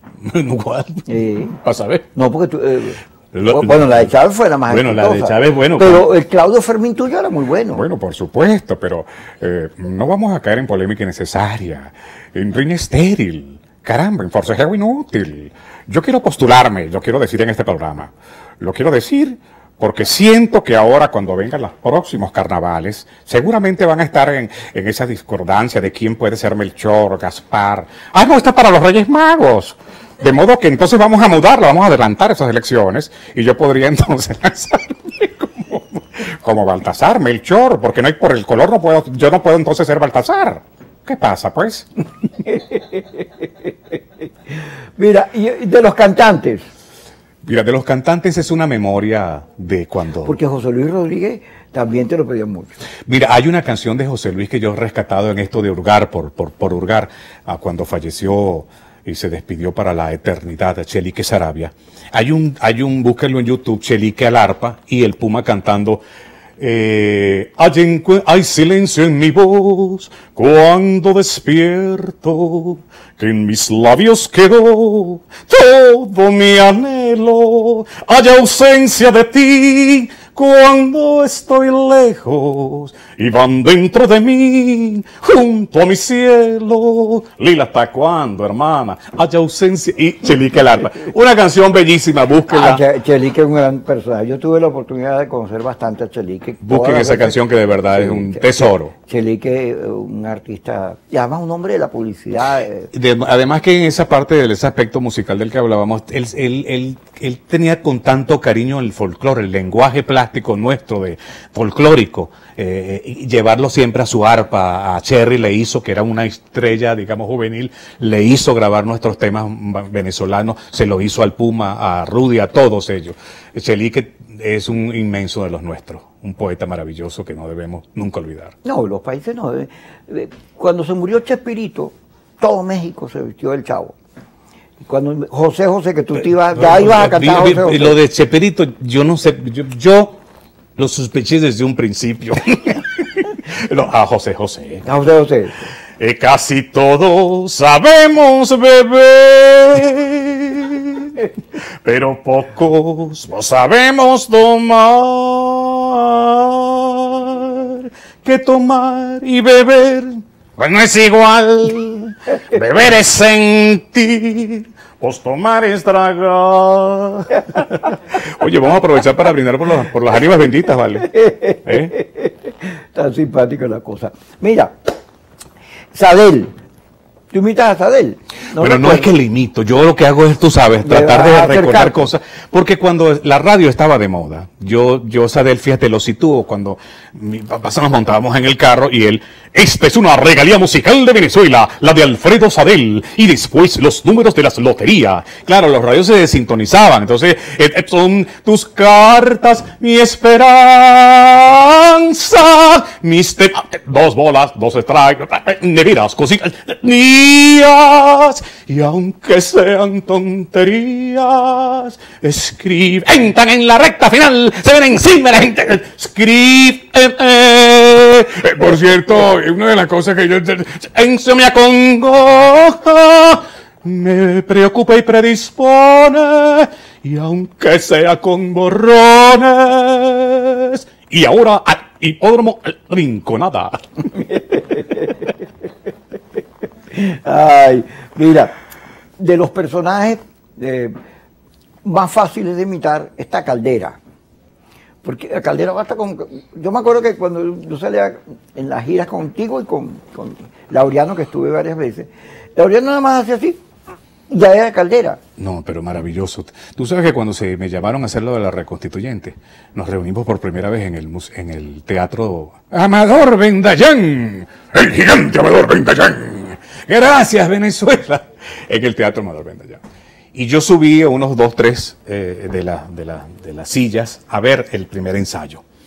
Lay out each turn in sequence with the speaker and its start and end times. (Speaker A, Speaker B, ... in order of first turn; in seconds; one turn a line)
Speaker A: 0.2-1.1
Speaker B: 1.1-1.6
Speaker A: 1.6-2.0
Speaker B: 2.1-7.8
Speaker A: 3.3-4.0
Speaker A: 4.7-6.0
Speaker A: 7.7-41.9
Speaker B: 42.5-43.2
Speaker B: 45.0-46.6
Speaker A: 47.4-50.4
Speaker B: 50.2-52.8
Speaker A: 53.1-66.0
Speaker A: 66.6-92.8
Speaker B: 92.5-102.9
Speaker A: 96.6-98.9
Speaker A: 102.9-128.5
Speaker B: 128.6-133.9
Speaker B: 134.8-138.0
Speaker A: 136.1-140.2
Speaker A: 140.8-144.8
Speaker B: 144.8-145.6
Speaker A: 146.0-151.3
Speaker A: 151.8-171.1
Speaker B: 171.1-174.7
Speaker A: 171.7-171.9
Speaker B: 175.9-176.5
Speaker B: 177.3-179.1
Speaker A: 178.6-233.8
Speaker B: 180.8-182.1
Speaker B: 234.2-235.2
Speaker B: 236.9-238.5
Speaker B: 239.2-241.0
Speaker B: 241.8-244.0
Speaker B: 245.0-253.6
Speaker B: 254.3-255.2
Speaker A: 255.4-269.8
Speaker A: 270.3-275.6